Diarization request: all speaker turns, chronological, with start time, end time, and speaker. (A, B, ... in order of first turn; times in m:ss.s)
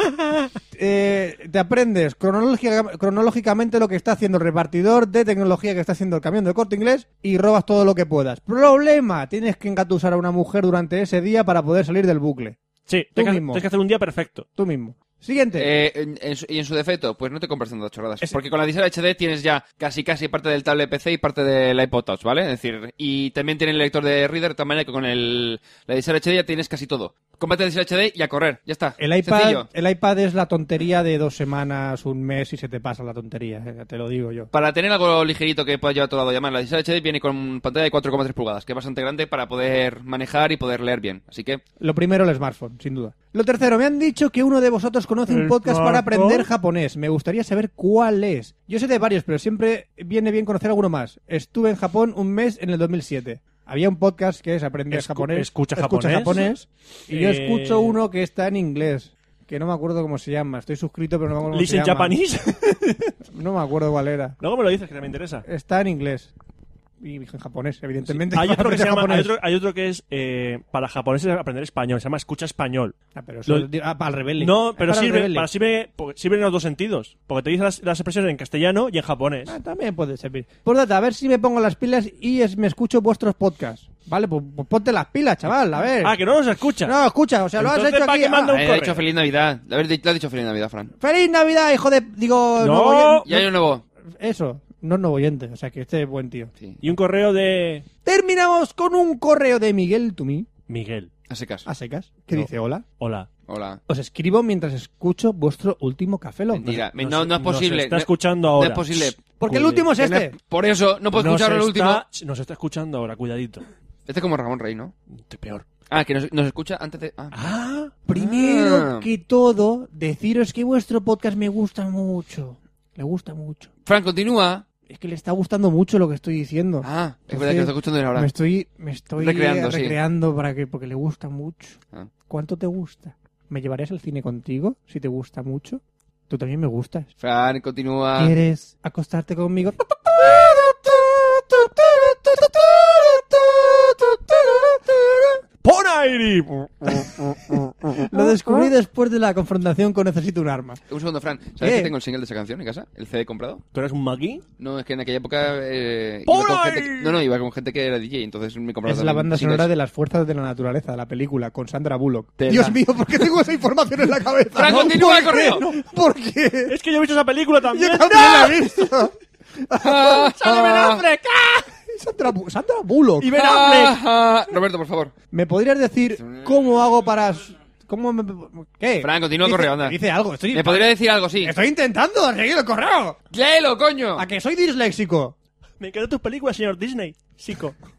0:00.7-0:12.6 A
0:12.9-0:14.4 B
0:13.1-0:13.6 A
0:14.6-0:15.7 A
0:15.6-0:29.7 C
0:29.0-0:34.5 A
0:34.5-0:41.6 C
0:41.8-1:02.2 A
0:45.3-0:46.5 B
0:54.9-0:56.4 B
0:57.1-0:58.0 B
1:01.5-1:03.1 B
1:03.3-1:04.4 A
1:04.4-1:05.4 B
1:05.4-1:06.3 A
1:07.0-1:09.3 A
1:08.1-1:12.9 B
1:13.2-1:15.5 A
1:14.4-1:19.5 B
1:19.5-1:26.2 A
1:26.0-1:27.0 B
1:26.8-1:28.6 A
1:27.6-1:29.0 B
1:28.5-1:30.9 C
1:31.0-1:33.5 A
1:32.6-1:33.2 B
1:33.2-1:33.8 C
1:34.2-1:36.5 A
1:36.8-1:37.8 B
1:38.0-1:40.5 A
1:40.7-1:41.1 B
1:41.3-1:41.7 C
1:41.6-1:42.8 A
1:43.0-1:43.3 B
1:43.5-1:43.8 C
1:43.9-1:46.8 A
1:46.5-1:49.2 C
1:47.0-1:49.9 B
1:49.4-1:50.4 A
1:50.0-1:52.0 C
1:51.1-1:53.6 B
1:54.1-1:54.9 C
1:55.3-1:55.6 B
1:55.9-1:57.3 C
1:57.3-1:57.9 B
1:58.1-2:03.7 A
1:58.1-1:59.1 C
2:03.8-2:04.6 C
2:04.9-2:11.8 A
2:06.8-2:08.3 C
2:09.2-2:10.0 C
2:12.3-2:17.1 A
2:17.2-2:18.3 C
2:18.2-2:25.4 A
2:25.6-2:27.7 B
2:27.0-2:30.8 A
2:30.9-2:33.6 C
2:31.6-2:31.9 A
2:33.7-2:34.4 B
2:34.6-2:39.7 C
2:36.3-2:37.2 B
2:38.8-2:46.8 A
2:42.4-2:42.8 C
2:44.5-2:45.6 C
2:44.6-2:44.9 B
2:46.7-2:48.6 B
2:47.7-2:53.4 A
2:49.8-2:51.0 C
2:53.2-2:54.0 B
2:53.3-2:55.1 C
2:55.3-3:03.2 A
2:56.2-2:56.5 C
2:59.0-3:00.0 C
3:00.5-3:01.5 C
3:03.3-3:04.2 C
3:04.2-3:05.3 A
3:05.8-3:07.8 B